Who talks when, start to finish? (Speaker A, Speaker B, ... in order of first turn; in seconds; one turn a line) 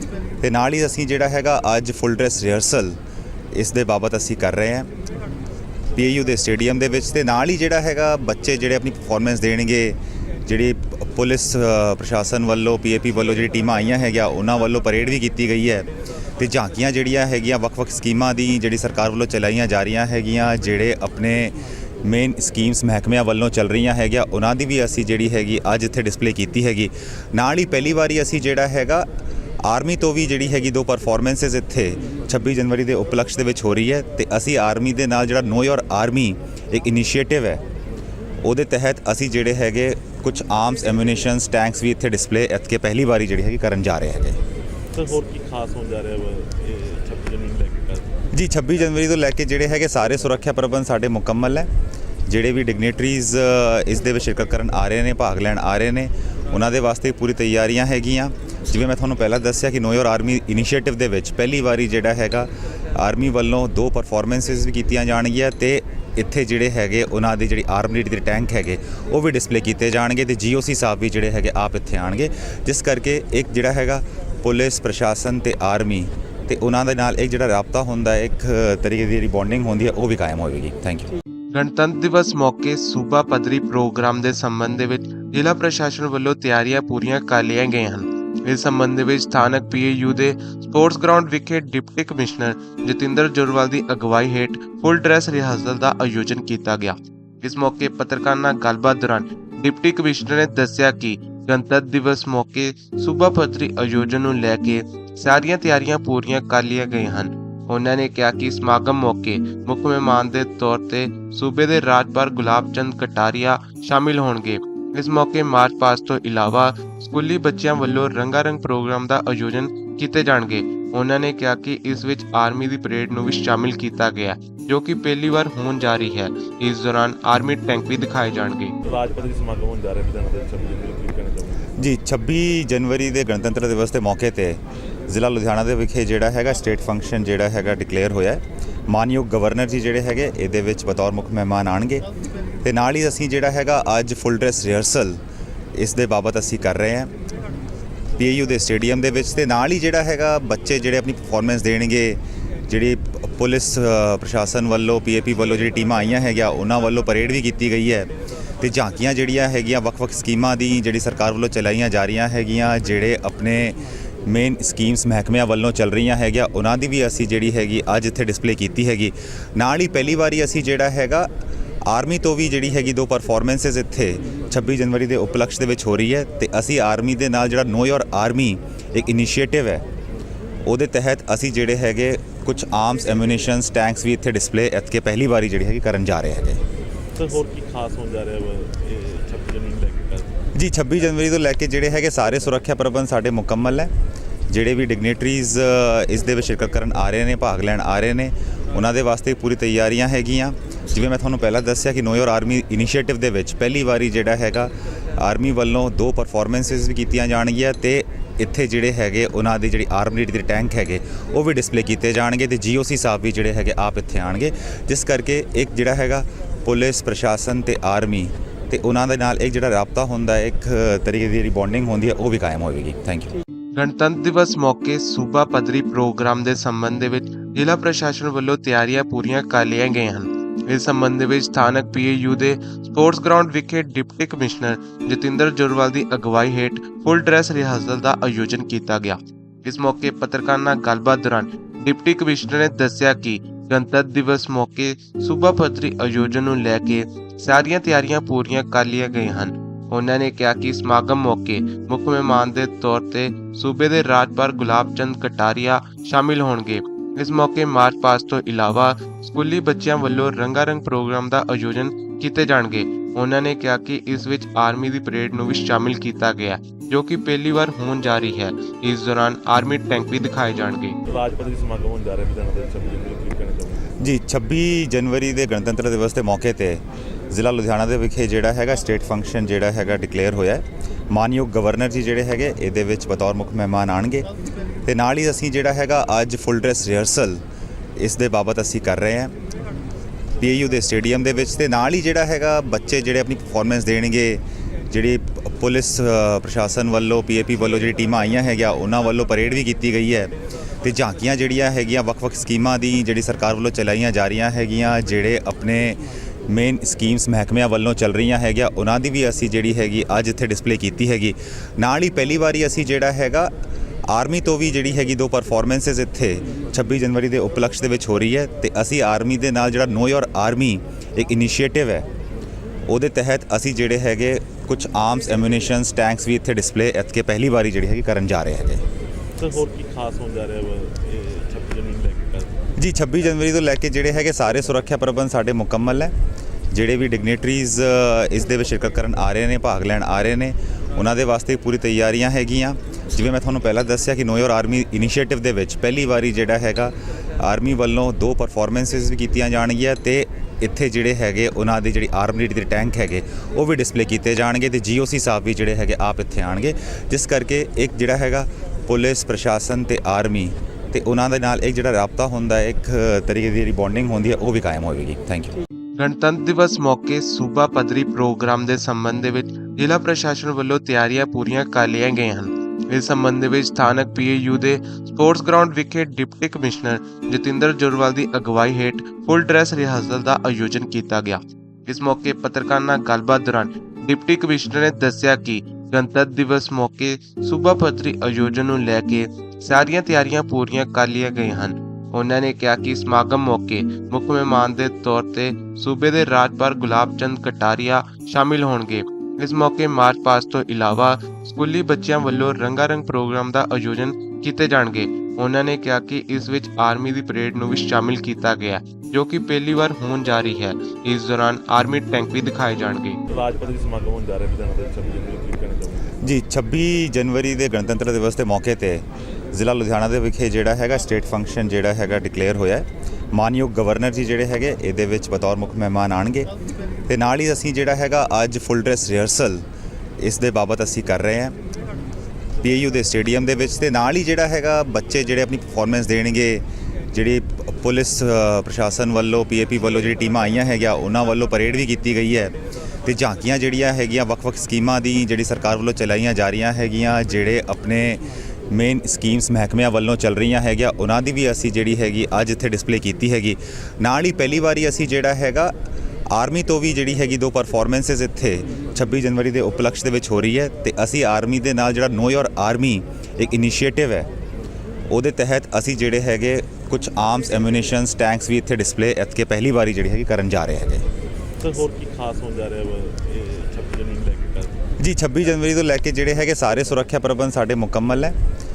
Speaker A: 0.4-3.0
Speaker A: 3.5-4.9
Speaker A: 6.0-15.9
Speaker A: 16.4-29.1
Speaker A: 29.6-37.6
Speaker A: 38.4-44.4
Speaker B: 44.9-48.2
Speaker A: 48.3-51.7
Speaker A: 52.3-81.1
Speaker C: 81.5-128.7
Speaker B: 128.8-131.6
Speaker A: 131.8-142.1
Speaker A: 142.6-145.2
Speaker A: 145.8-147.1
Speaker A: 148.2-158.1
Speaker A: 158.6-171.3
Speaker A: 171.9-179.8
Speaker A: 180.7-186.6
Speaker B: 187.2-190.4
Speaker A: 190.5-193.9
Speaker A: 194.5-223.3
Speaker C: 223.8-271.0
Speaker B: 271.1-273.9
Speaker A: 274.0-284.3
Speaker A: 284.9-287.4
Speaker A: 288.0-289.3
Speaker A: 290.4-300.3
Speaker A: 300.8-313.5
Speaker A: 314.1-322.1
Speaker A: 322.9-328.8
Speaker B: 329.4-332.6
Speaker A: 332.8-336.1
Speaker A: 336.7-365.5
Speaker C: 366.0-413.2
Speaker B: 413.3-416.1
Speaker A: 416.2-426.5
Speaker A: 427.1-429.6
Speaker A: 430.2-431.5
Speaker A: 432.6-442.5
Speaker A: 443.0-455.7
Speaker A: 456.3-464.3
Speaker A: 465.1-471.1
Speaker B: 471.6-474.8
Speaker A: 475.0-478.3